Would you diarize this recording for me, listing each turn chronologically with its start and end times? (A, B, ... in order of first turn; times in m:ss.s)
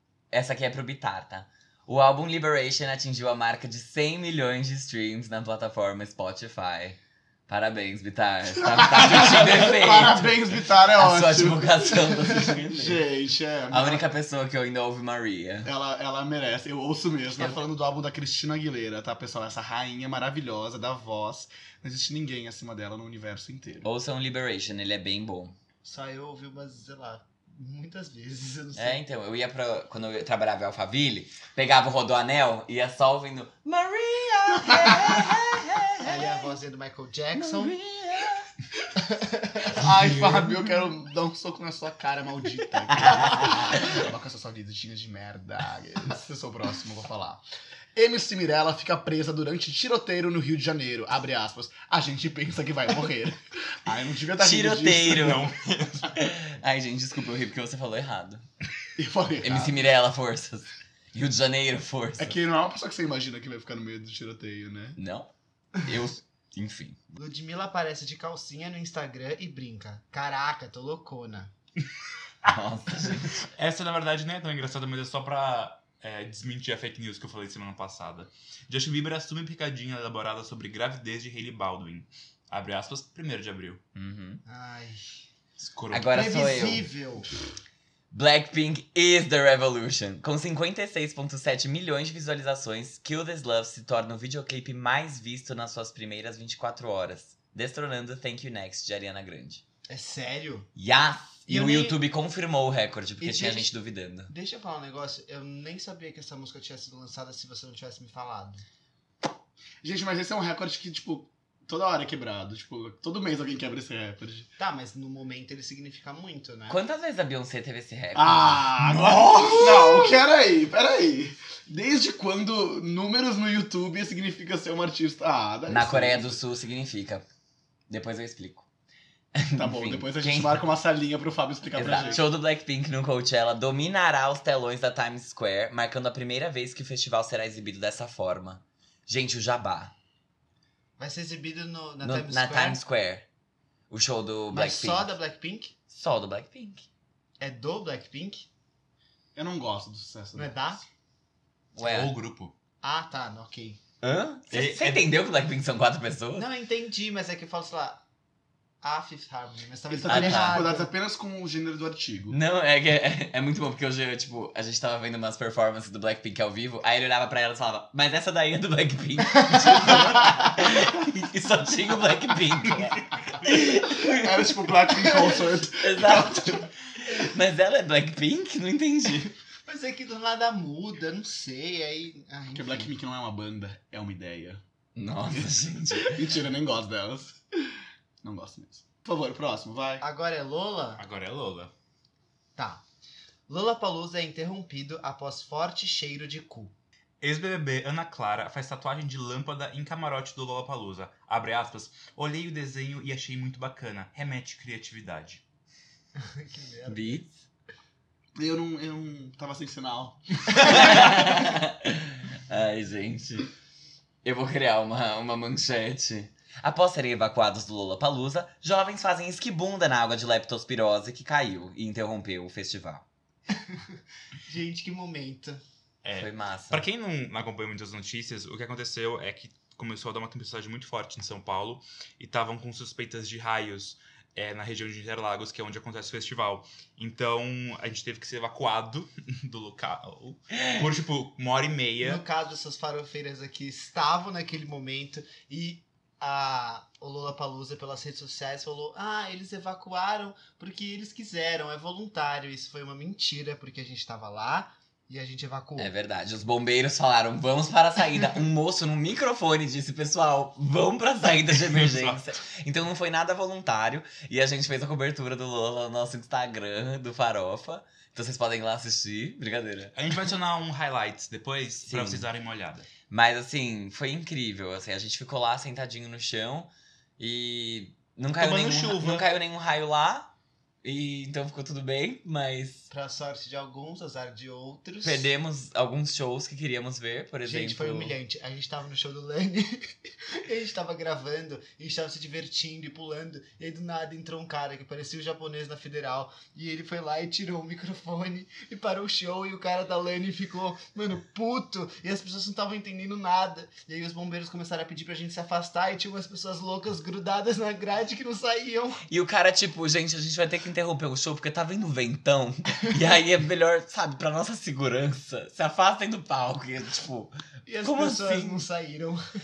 0:00.3-0:13.0 A
0:08.6-0:14.0 B
0:13.7-0:15.7 A
0:15.6-0:23.9 B
0:23.8-0:25.6 A
0:25.8-0:29.0 C
0:28.8-0:36.5 A
0:36.0-0:37.8 C
0:37.4-0:38.5 A
0:39.0-0:39.8 C
0:39.7-0:47.4 B
0:43.0-0:43.8 A
0:48.0-0:55.4 B
0:54.4-0:55.5 A
0:55.1-0:56.1 D
0:56.1-0:58.4 A
0:59.0-0:59.9 B
0:59.4-1:02.4 A
1:02.2-1:05.0 B
1:05.0-1:07.0 A
1:07.1-1:11.5 C
1:12.4-1:13.4 A
1:13.4-1:23.8 D
1:24.0-1:24.4 A
1:24.5-1:25.2 C
1:25.6-1:26.2 D
1:25.9-1:26.9 A
1:26.1-1:27.3 C
1:28.1-1:39.6 A
1:39.9-1:40.7 C
1:40.8-1:44.3 A
1:41.5-1:42.0 C
1:43.2-1:43.7 C
1:44.3-1:48.6 C
1:49.8-1:54.5 B
1:54.6-1:56.8 C
1:56.7-2:00.1 A
1:58.2-2:06.4 B
2:05.7-2:07.3 A
2:07.9-2:08.7 A
2:09.4-2:10.6 A
2:09.6-2:12.3 B
2:11.8-2:19.9 A
2:11.9-2:12.2 C
2:21.0-2:22.8 C
2:22.0-2:23.2 A
2:23.9-2:25.1 A
2:24.5-2:25.8 C
2:25.9-2:26.9 A
2:27.4-2:28.5 C
2:29.4-2:30.8 B
2:30.4-2:30.8 C
2:31.8-2:32.1 A
2:31.8-2:32.5 D
2:32.8-2:33.8 C
2:34.0-2:36.5 A
2:34.5-2:35.1 D
2:36.4-2:38.0 C
2:38.8-2:40.9 C
2:39.9-2:42.4 B
2:40.1-2:40.7 A
2:42.3-2:59.3 A
2:53.8-2:56.5 B
2:59.7-3:02.9 C
3:02.5-3:04.6 B
3:05.0-3:06.2 A
3:05.3-3:07.7 B
3:08.2-3:10.0 B
3:10.0-3:11.0 C
3:11.0-3:11.7 D
3:12.6-3:12.8 C
3:13.5-3:16.8 C
3:17.2-3:25.4 D
3:26.2-3:27.2 C
3:26.9-3:27.3 A
3:28.4-3:30.2 B
3:30.6-3:33.5 A
3:34.2-3:43.0 A
3:43.5-3:45.6 C
3:46.0-4:02.2 D
3:46.1-3:46.8 A
4:00.6-4:00.8 A
4:02.0-4:15.9 C
4:15.8-4:29.9 A
4:21.5-4:22.2 D
4:29.9-4:32.9 D
4:31.8-4:32.3 A
4:33.1-4:40.3 A
4:38.4-4:39.3 D
4:40.8-4:42.9 A
4:42.9-4:45.3 C
4:45.0-4:48.2 A
4:47.4-5:09.0 C
5:09.1-5:18.6 A
5:17.7-5:19.2 C